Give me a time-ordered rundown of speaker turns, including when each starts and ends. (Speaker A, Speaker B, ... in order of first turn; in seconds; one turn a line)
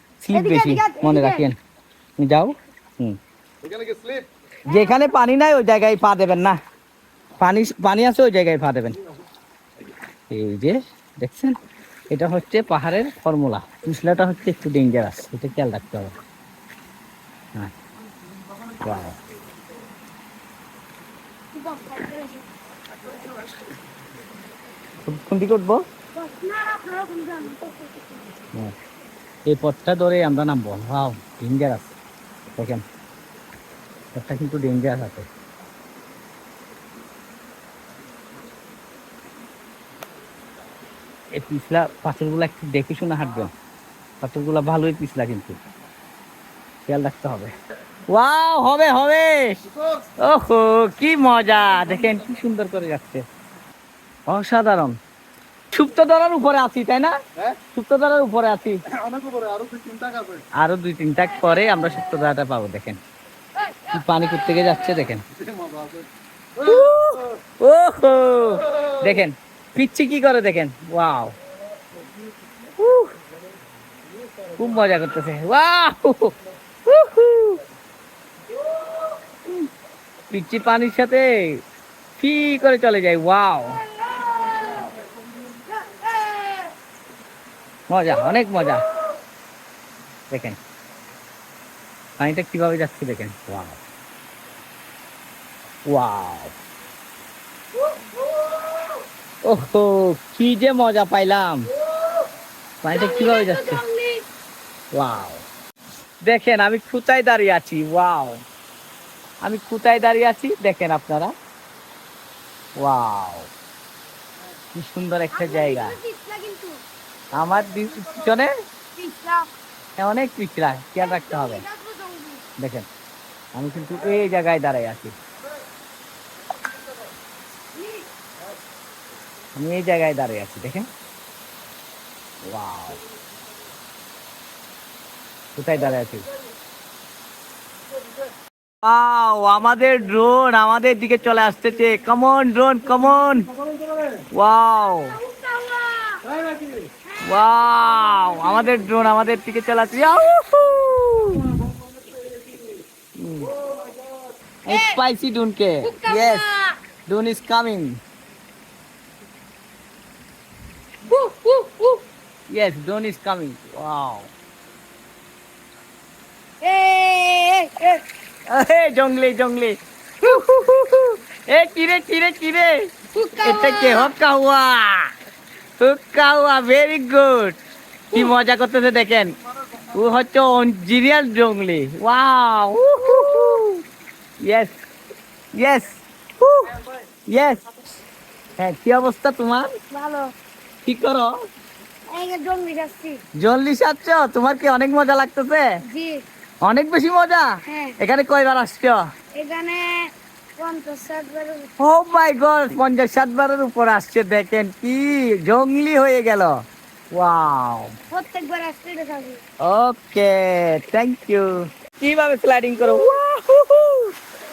Speaker A: 0.2-1.6
Speaker B: 0.3-1.4
Speaker A: 2.2-3.2
Speaker C: 3.6-4.3
Speaker A: 4.7-6.6
Speaker B: 4.7-5.1
Speaker A: 7.4-9.0
Speaker A: 10.3-11.6
Speaker A: 12.1-16.1
Speaker A: 18.8-19.2
Speaker B: 21.5-22.4
Speaker A: 25.0-25.8
Speaker B: 26.1-28.3
Speaker A: 29.5-31.9
Speaker A: 32.6-32.8
Speaker A: 34.1-35.3
Speaker A: 41.3-43.5
Speaker A: 44.2-45.6
Speaker A: 46.9-47.5
Speaker A: 48.1-49.6
Speaker C: 49.7-50.1
Speaker A: 50.2-53.2
Speaker A: 54.3-55.0
Speaker A: 55.7-57.1
Speaker A: 57.7-58.8
Speaker C: 58.9-60.4
Speaker A: 60.6-63.0
Speaker B: 63.6-63.9
Speaker A: 63.9-65.2
Speaker C: 65.3-67.3
Speaker A: 66.6-71.4
Speaker C: 68.8-69.1
Speaker A: 72.8-73.1
Speaker A: 74.6-76.3
Speaker A: 76.8-77.6
Speaker A: 80.3-81.6
Speaker A: 82.2-83.8
Speaker B: 83.8-85.0
Speaker B: 85.7-86.7
Speaker A: 87.9-88.9
Speaker B: 88.4-89.0
Speaker A: 90.3-90.6
Speaker A: 92.2-93.8
Speaker A: 95.9-96.5
Speaker B: 98.0-98.8
Speaker A: 99.4-101.7
Speaker B: 102.0-102.3
Speaker A: 102.8-103.8
Speaker B: 102.9-104.2
Speaker A: 104.9-105.5
Speaker A: 106.2-108.4
Speaker A: 109.4-111.3
Speaker A: 112.8-113.5
Speaker A: 114.7-116.0
Speaker B: 115.3-116.8
Speaker A: 117.3-118.5
Speaker B: 119.0-119.5
Speaker A: 120.0-121.6
Speaker B: 121.0-122.5
Speaker A: 122.6-122.9
Speaker A: 123.5-125.1
Speaker B: 127.7-128.1
Speaker A: 129.6-130.9
Speaker A: 132.4-133.0
Speaker A: 135.6-136.2
Speaker A: 138.8-143.5
Speaker C: 143.5-144.2
Speaker A: 144.3-145.2
Speaker B: 145.1-146.2
Speaker C: 146.3-146.9
Speaker B: 147.1-148.8
Speaker A: 147.2-151.6
Speaker C: 151.7-152.8
Speaker A: 153.2-153.5
Speaker C: 153.6-154.1
Speaker A: 154.7-156.4
Speaker B: 154.7-155.0
Speaker B: 155.8-156.8
Speaker A: 157.1-158.0
Speaker B: 161.1-162.0
Speaker A: 162.5-164.3
Speaker B: 166.6-168.0
Speaker A: 168.5-172.8
Speaker B: 173.1-174.1
Speaker A: 173.4-175.1
Speaker A: 175.8-177.6
Speaker A: 178.1-179.4
Speaker A: 179.9-183.8
Speaker A: 184.4-184.8
Speaker A: 185.6-187.8
Speaker A: 188.6-189.7
Speaker B: 189.9-190.3
Speaker A: 190.8-191.3
Speaker B: 192.1-193.2
Speaker A: 193.4-195.7
Speaker B: 195.9-196.2
Speaker A: 196.7-197.5
Speaker B: 197.7-198.0
Speaker A: 198.0-199.0
Speaker B: 199.4-201.7
Speaker A: 201.8-206.5
Speaker A: 207.1-207.9
Speaker B: 208.1-209.4
Speaker A: 209.6-214.1